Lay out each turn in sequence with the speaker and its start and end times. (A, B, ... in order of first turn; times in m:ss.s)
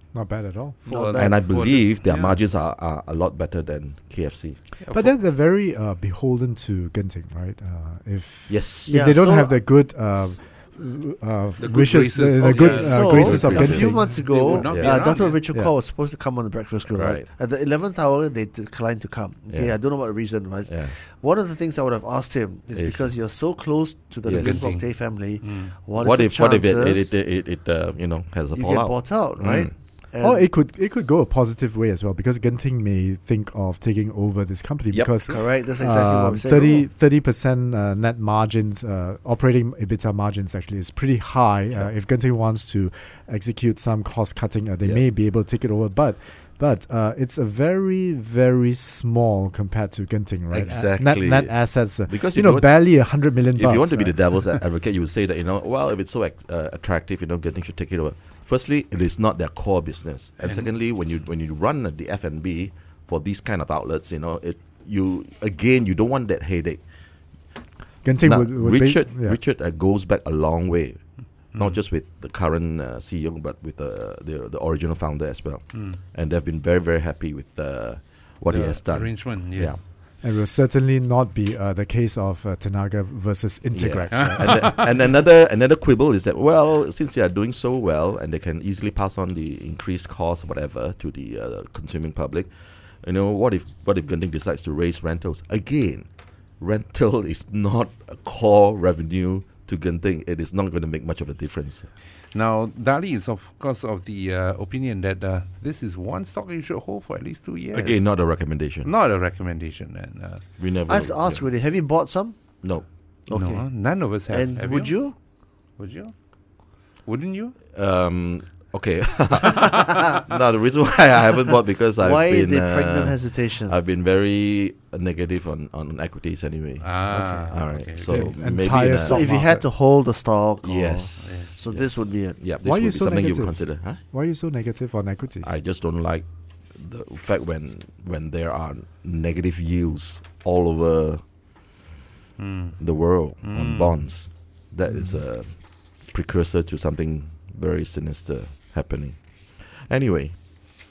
0:00.1-0:00.8 A
0:00.8-0:01.3 B
0:00.8-0:02.4 C
0:01.1-0:04.6 D
0:04.8-0:05.2 C
0:04.9-0:14.6 A
0:08.5-0:08.9 D
0:08.9-0:09.6 B
0:11.6-0:15.4 C
0:12.4-0:27.1 B
0:13.2-0:13.9 D
0:14.6-0:15.1 D
0:16.8-0:17.3 D
0:19.5-0:20.0 D
0:20.6-0:20.9 D
0:22.7-0:23.1 D
0:24.2-0:24.7 D
0:24.3-0:24.9 C
0:25.4-0:25.7 C
0:26.0-0:29.7 D
0:28.5-0:30.5 B
0:30.2-0:54.6 A
0:34.9-0:35.2 D
0:35.3-0:36.9 B
0:50.5-0:51.6 D
0:52.1-1:06.8 D
1:08.0-1:09.4 A
1:08.2-1:11.0 D
1:11.5-1:19.8 D
1:15.7-1:16.0 C
1:18.5-1:19.9 C
1:20.2-1:24.7 A
1:23.7-1:32.5 D
1:24.1-1:24.9 C
1:33.0-1:36.1 D
1:36.6-1:41.9 D
1:42.3-1:48.2 C
1:47.7-1:48.9 D
1:48.8-1:50.4 C
1:50.6-1:51.5 D
1:50.9-1:52.4 B
1:52.6-1:52.9 D
1:53.3-1:55.2 B
1:53.3-1:55.0 C
1:55.8-1:56.1 C
1:57.0-1:57.5 C
1:57.7-2:09.2 D
2:02.0-2:03.7 B
2:06.8-2:08.4 C
2:08.1-2:09.7 A
2:09.0-2:12.4 B
2:10.6-2:14.0 D
2:11.2-2:11.6 C
2:12.6-2:15.5 A
2:15.4-2:21.2 D
2:22.4-2:22.8 C
2:22.8-2:29.2 D
2:23.4-2:24.0 C
2:29.8-2:30.4 D